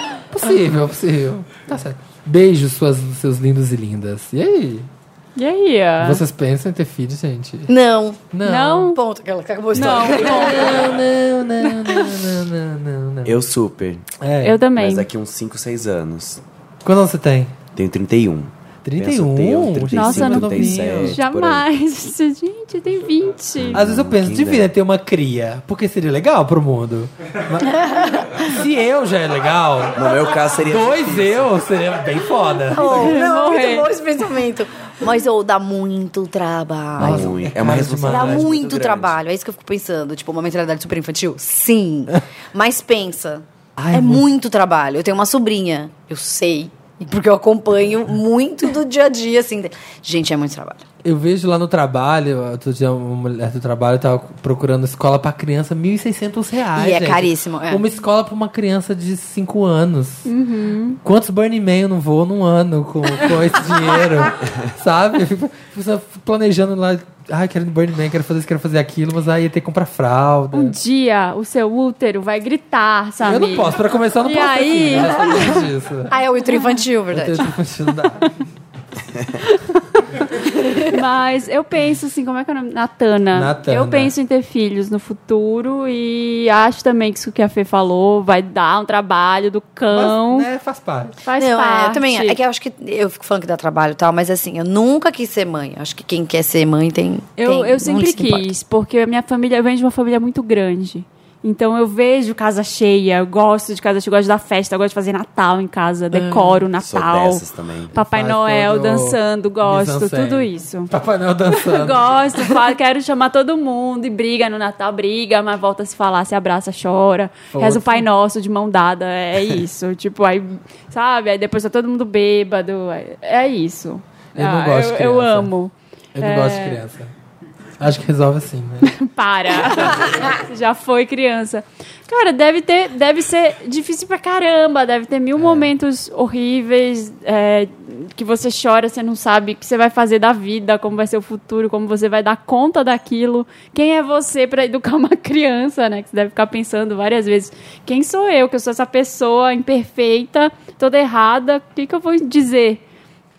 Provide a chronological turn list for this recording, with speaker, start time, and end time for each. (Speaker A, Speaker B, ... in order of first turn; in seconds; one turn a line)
Speaker A: 0.3-4.9
Speaker B: 5.3-6.2
Speaker A: 6.0-7.7
Speaker C: 7.7-8.2
Speaker A: 8.3-8.9
Speaker B: 8.4-9.0
Speaker C: 8.9-10.9
Speaker B: 9.7-10.8
Speaker A: 10.0-13.4
Speaker D: 13.2-14.0
Speaker A: 14.2-14.6
Speaker B: 14.4-15.1
Speaker D: 14.8-16.4
Speaker A: 16.8-17.5
Speaker D: 17.7-21.6
Speaker A: 18.8-21.2
Speaker B: 19.9-23.8
Speaker D: 23.6-24.7
Speaker A: 23.7-27.8
Speaker C: 27.7-28.5
Speaker A: 28.4-33.1
Speaker D: 29.9-31.5
Speaker C: 32.7-37.3
Speaker B: 32.8-33.9
Speaker A: 37.0-38.5
Speaker D: 37.0-39.2
Speaker C: 38.1-50.8
Speaker A: 43.8-44.2
Speaker A: 51.0-60.3
Speaker C: 56.8-57.8
Speaker B: 60.2-61.0
Speaker A: 61.0-70.7
Speaker B: 70.5-75.6
Speaker A: 73.2-76.1
Speaker C: 76.1-77.5
Speaker A: 77.1-78.3
Speaker C: 80.6-80.9
Speaker B: 80.8-90.5
Speaker A: 83.3-84.1
Speaker A: 89.9-91.2
Speaker B: 91.2-92.4
Speaker C: 91.4-98.5
Speaker B: 97.4-110.9
Speaker C: 106.1-106.6
Speaker D: 106.8-107.9
Speaker A: 108.0-112.1
Speaker B: 111.6-126.8
Speaker A: 117.5-118.0
Speaker A: 124.3-125.5
Speaker A: 126.1-127.1
Speaker A: 127.8-128.9
Speaker B: 128.8-152.8
Speaker A: 135.4-135.7